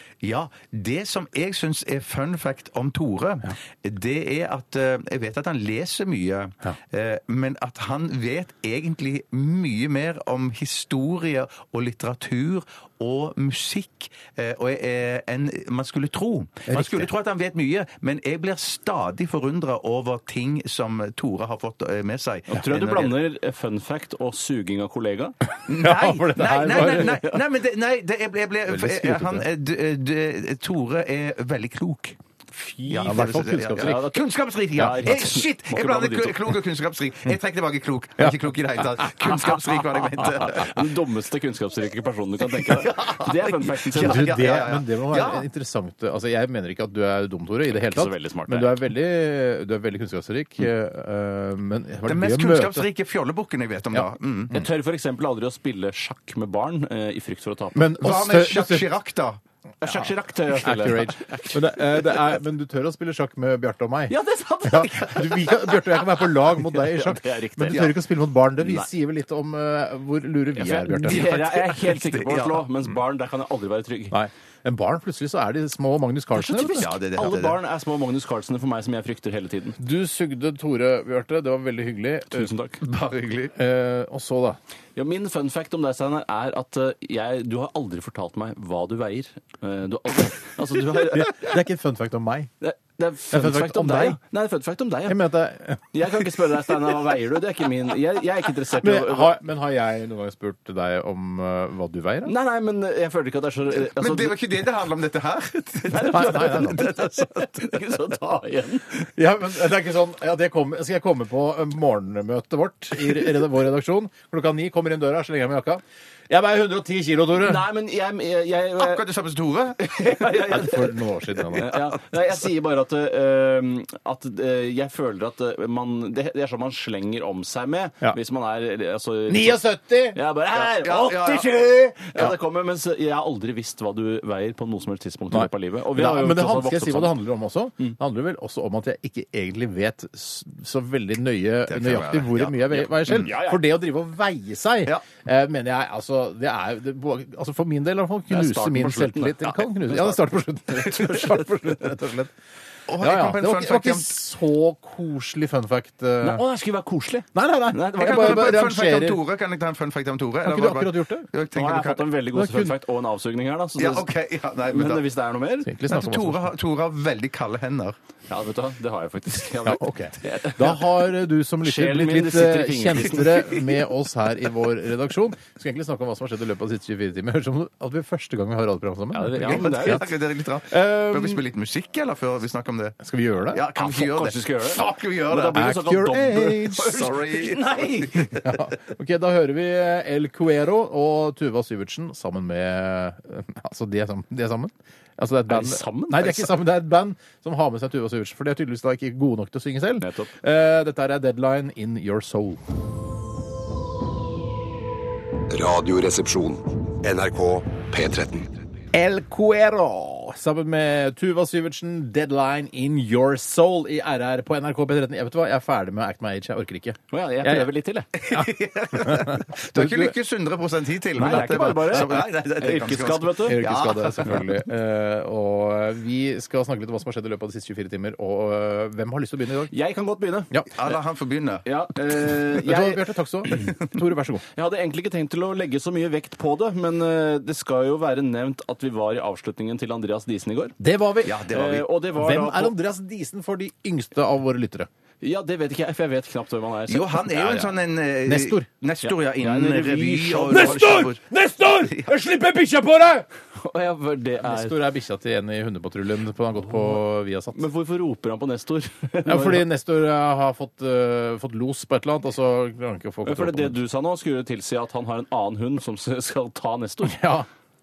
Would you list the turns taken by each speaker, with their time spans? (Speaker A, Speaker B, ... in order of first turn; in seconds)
Speaker A: 0.2-23.2, 25.6-32.2, 32.9-40.7, 42.6-45.4, 52.0-54.6, 58.0-59.4, 67.7-67.9, 71.1-72.6, 76.8-77.6, 82.8-83.5, 103.8-107.6, 118.8-119.9, 130.5-131.6, 141.7-143.3, 152.9-154.2, 158.0-162.0, 163.8-165.0, 165.9-167.9, 179.4-185.7, 186.8-188.5, 218.2-224.4, 230.7-231.6, 241.2-241.8, 246.9-251.2, 251.7-252.1
Speaker B: 16.7-17.1, 25.7-27.3, 28.7-29.5, 33.0-34.1, 34.8-35.1, 44.0-52.9, 53.9-54.6, 57.7-58.9, 60.5-71.3, 74.1-76.9, 79.8-82.5, 83.5-84.6, 90.8-92.5, 93.3-94.2, 95.1-96.3, 98.7-102.3, 106.1-106.9, 109.1-117.6, 120.4-121.8, 129.3-130.2, 135.3-152.3, 153.0-156.4, 157.3-159.2, 160.4-161.3, 162.3-162.8, 165.6-166.5, 169.6-180.1, 180.7-181.4, 183.0-183.6, 185.5-187.1, 188.4-202.6, 208.9-217.7, 218.3-220.1, 221.2-222.1, 223.4-229.7, 232.5-234.4, 240.8-241.5, 242.1-244.9, 248.2-248.7, 250.5-253.2, 254.4-257.6, 259.2-263.8, 267.0-267.5
Speaker C: 22.5-25.4, 32.5-34.2, 34.8-36.4, 40.4-44.3, 47.7-48.8, 54.5-57.9, 59.8-61.6, 64.1-67.9, 68.6-68.9, 70.6-74.2, 76.3-79.8, 82.3-82.8, 85.0-91.5, 92.6-95.2, 95.9-99.4, 102.2-104.4, 105.9-108.9, 117.3-119.0, 119.8-121.0, 121.5-137.2, 142.7-143.6, 148.3-151.8, 156.2-158.5, 161.5-164.1, 164.7-165.7, 168.3-170.8, 171.6-173.7, 179.1-180.1, 183.8-188.3, 195.5-196.6, 200.0-200.3, 217.1-218.1, 221.2-223.6, 229.7-230.9, 231.6-233.0, 234.5-240.8, 241.5-242.7, 245.2-247.7, 249.0-251.0, 253.6-254.8, 256.7-257.0, 257.5-259.7, 263.2-267.3
Speaker D: 205.5-208.5